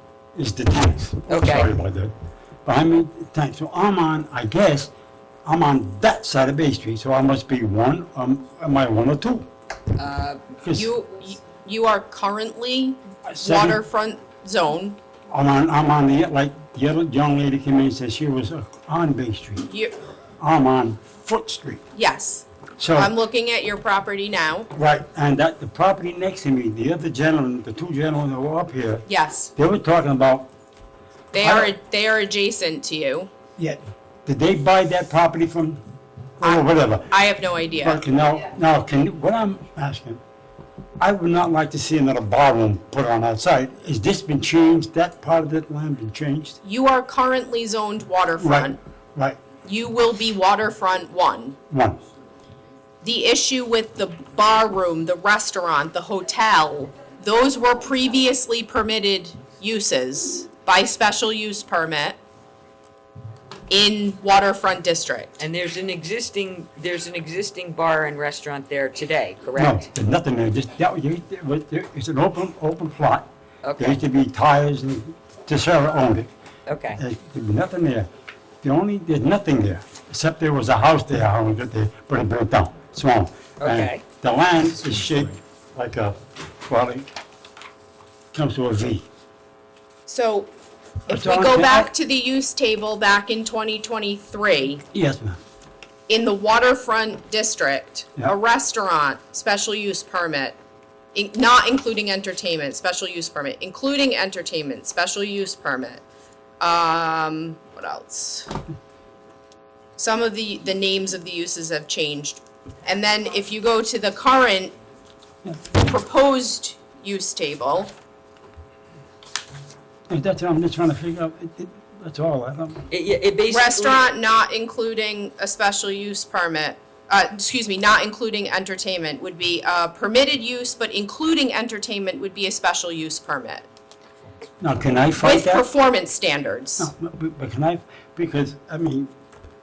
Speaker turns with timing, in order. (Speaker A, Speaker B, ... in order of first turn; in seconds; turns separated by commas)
Speaker A: 0.3-2.1, Speaker B: 1.3-1.7, Speaker A: 2.6-4.9, Speaker A: 5.4-9.5, Speaker B: 9.9-10.4, Speaker A: 10.6-10.9, Speaker C: 10.7-15.0, Speaker A: 13.2-13.8, Speaker A: 15.3-19.7, Speaker C: 19.7-19.9, Speaker A: 20.4-21.8, Speaker C: 21.9-24.7, Speaker A: 22.8-23.1, Speaker A: 24.7-30.5, Speaker C: 29.1-29.5, Speaker C: 31.3-33.3, Speaker A: 31.4-31.7, Speaker A: 33.6-35.8, Speaker A: 36.4-37.1, Speaker C: 36.4-38.0, Speaker A: 37.8-40.2, Speaker A: 41.0-46.6, Speaker C: 46.6-48.8, Speaker A: 48.4-49.4, Speaker C: 49.6-51.5, Speaker A: 51.7-52.0, Speaker C: 53.0-62.2, Speaker C: 63.7-65.3, Speaker B: 65.4-69.8, Speaker A: 69.5-76.3, Speaker B: 73.6-74.0, Speaker B: 76.7-77.0, Speaker A: 77.0-78.1, Speaker A: 78.6-87.0, Speaker B: 83.6-84.0, Speaker A: 88.3-89.0, Speaker C: 90.1-90.5, Speaker C: 91.1-94.8, Speaker A: 91.1-91.9, Speaker A: 94.9-95.4, Speaker C: 96.1-100.6, Speaker C: 101.1-106.0, Speaker C: 106.6-108.5, Speaker C: 110.0-114.7, Speaker C: 115.7-117.9, Speaker A: 120.1-122.8, Speaker B: 122.9-124.1, Speaker C: 123.5-133.7, Speaker A: 134.6-135.7, Speaker C: 135.2-136.9, Speaker A: 136.8-139.1